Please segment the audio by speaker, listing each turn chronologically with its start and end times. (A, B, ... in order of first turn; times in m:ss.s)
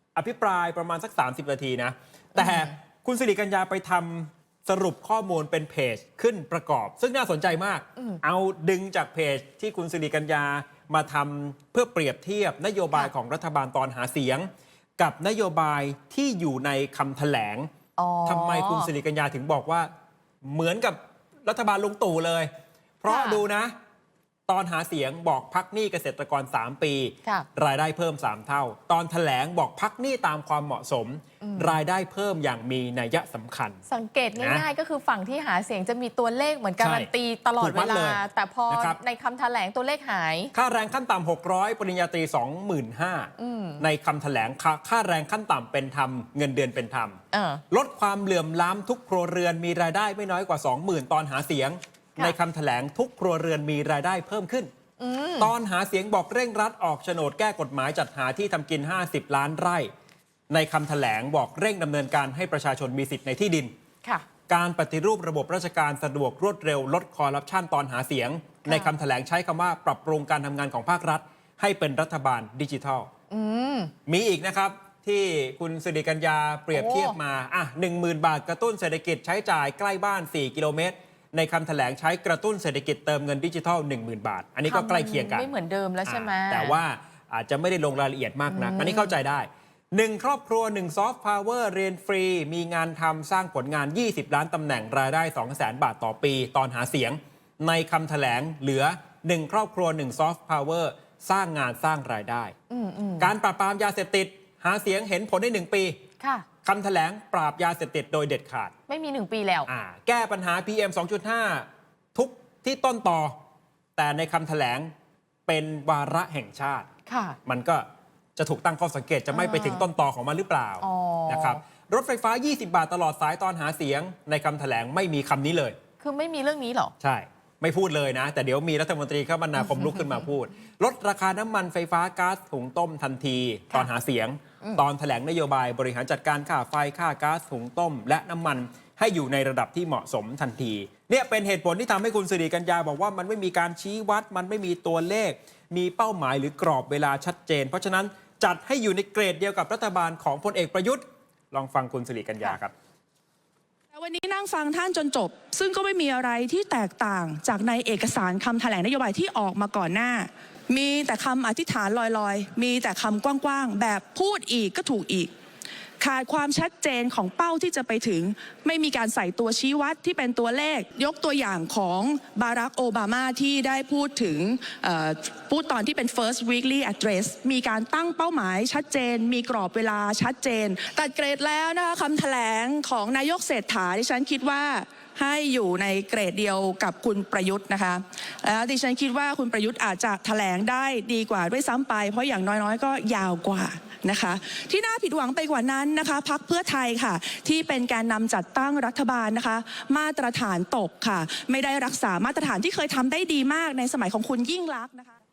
0:00.2-0:17.7 A
0:02.4-0:02.7 B
0:18.0-0:18.9 B
0:18.2-0:19.9 A
0:20.4-0:22.5 A
0:23.0-0:23.7 A
0:23.0-0:23.4 B
0:24.5-0:33.8 A
0:31.4-0:31.8 B
0:33.9-0:40.5 B
0:34.4-0:34.6 A
0:36.8-0:39.0 A
0:40.5-0:54.7 A
0:43.4-0:43.8 B
0:47.3-0:47.6 B
0:55.0-0:55.5 B
0:55.4-0:59.9 A
1:00.5-1:03.7 A
1:04.5-1:13.1 A
1:08.6-1:08.9 B
1:13.3-1:13.9 B
1:14.0-1:25.5 A
1:16.7-1:17.2 B
1:24.6-1:26.8 B
1:26.0-1:42.5 A
1:28.5-1:29.1 B
1:42.7-1:43.3 B
1:43.2-1:46.0 A
1:46.2-1:46.5 B
1:46.6-1:48.7 A
1:48.9-1:49.7 B
1:49.7-1:53.4 A
1:54.0-1:54.9 A
1:55.5-1:56.9 A
1:57.1-1:57.4 B
1:57.4-2:05.8 A
1:59.3-1:59.9 B
2:00.8-2:01.6 B
2:06.0-2:06.9 B
2:07.0-2:32.7 A
2:09.7-2:10.2 B
2:33.9-2:45.3 C
2:46.0-3:25.2 C